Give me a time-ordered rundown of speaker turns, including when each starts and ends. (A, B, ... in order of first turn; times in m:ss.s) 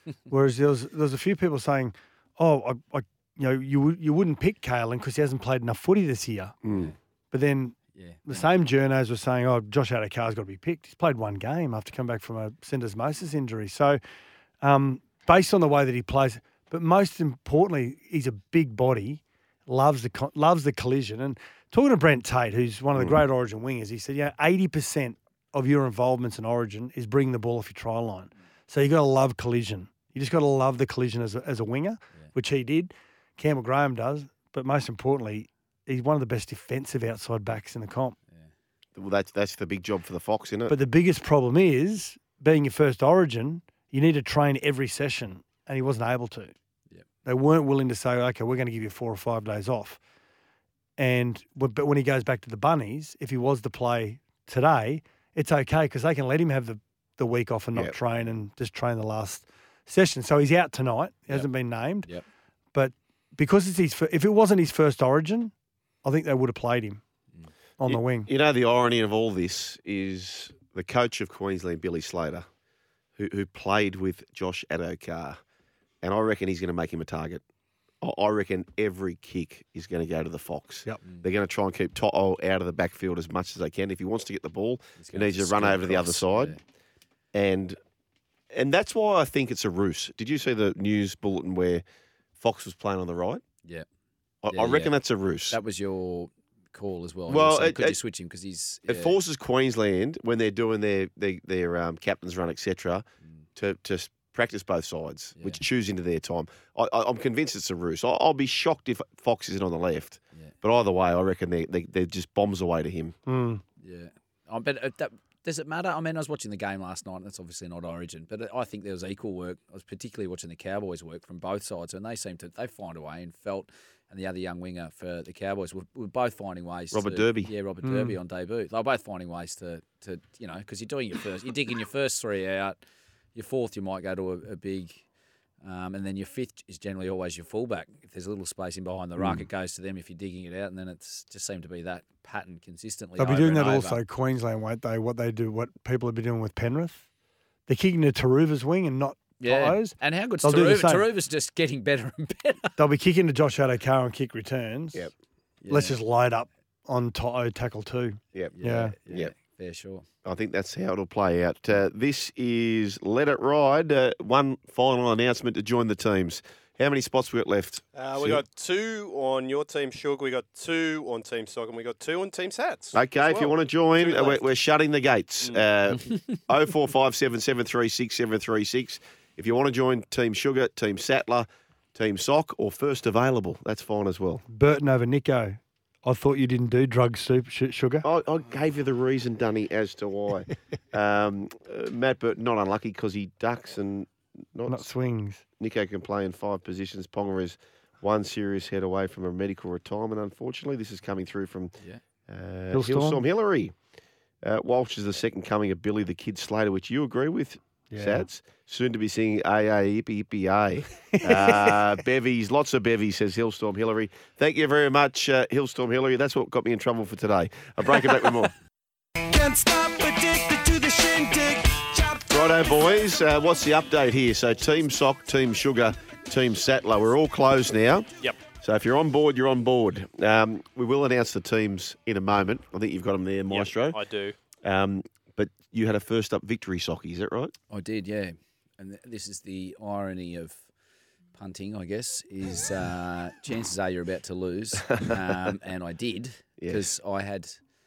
0:00.3-0:06.6 A
0:06.6-0:06.9 B
0:07.3-0:07.8 A
0:08.0-0:08.5 C
0:08.3-0:14.0 A
0:14.6-0:38.2 A
0:23.0-0:23.2 B
0:39.0-0:40.8 B
0:40.7-0:46.5 A
0:47.2-0:50.0 A
0:51.0-1:02.1 A
1:02.7-1:05.5 A
1:06.0-1:07.0 A
1:07.8-1:08.3 A
1:07.9-1:12.5 B
1:13.2-1:15.4 B
1:16.0-1:17.4 B
1:18.0-1:26.6 B
1:25.0-1:26.6 C
1:27.3-1:27.8 B
1:28.5-1:31.8 B
1:32.4-1:33.4 B
1:34.4-1:35.6 B
1:34.5-1:34.9 C
1:35.5-1:39.2 C
1:37.3-1:38.0 B
1:38.9-1:43.0 B
1:43.6-1:53.2 B
1:45.4-1:45.6 C
1:53.3-1:53.6 A
1:53.8-2:12.8 C
2:06.9-2:07.5 B
2:07.8-2:08.2 A
2:13.4-2:15.0 C
2:15.6-2:24.0 C
2:19.2-2:19.4 B
2:23.2-2:27.0 A
2:27.7-2:31.1 A
2:29.4-2:32.8 C
2:32.8-2:35.1 A
2:35.6-2:36.0 C
2:35.7-2:39.0 A
2:38.6-2:40.0 C
2:39.1-2:39.3 B
2:40.2-2:48.4 B
2:48.0-2:54.5 D
2:52.9-3:04.4 B
3:04.5-3:08.1 A
3:08.0-3:14.9 B
3:14.7-3:15.4 A
3:15.6-3:21.7 B
3:22.3-3:23.7 B
3:22.7-3:23.2 A
3:24.4-3:38.5 B
3:27.9-3:28.3 A
3:31.2-3:31.8 A
3:39.2-3:42.7 E
3:42.3-3:48.1 B
3:48.6-3:54.0 B
3:53.5-3:54.4 D
3:54.6-3:57.5 B
3:57.7-4:00.6 C
4:01.4-4:07.6 C
4:04.8-4:05.5 B
4:06.6-4:06.9 B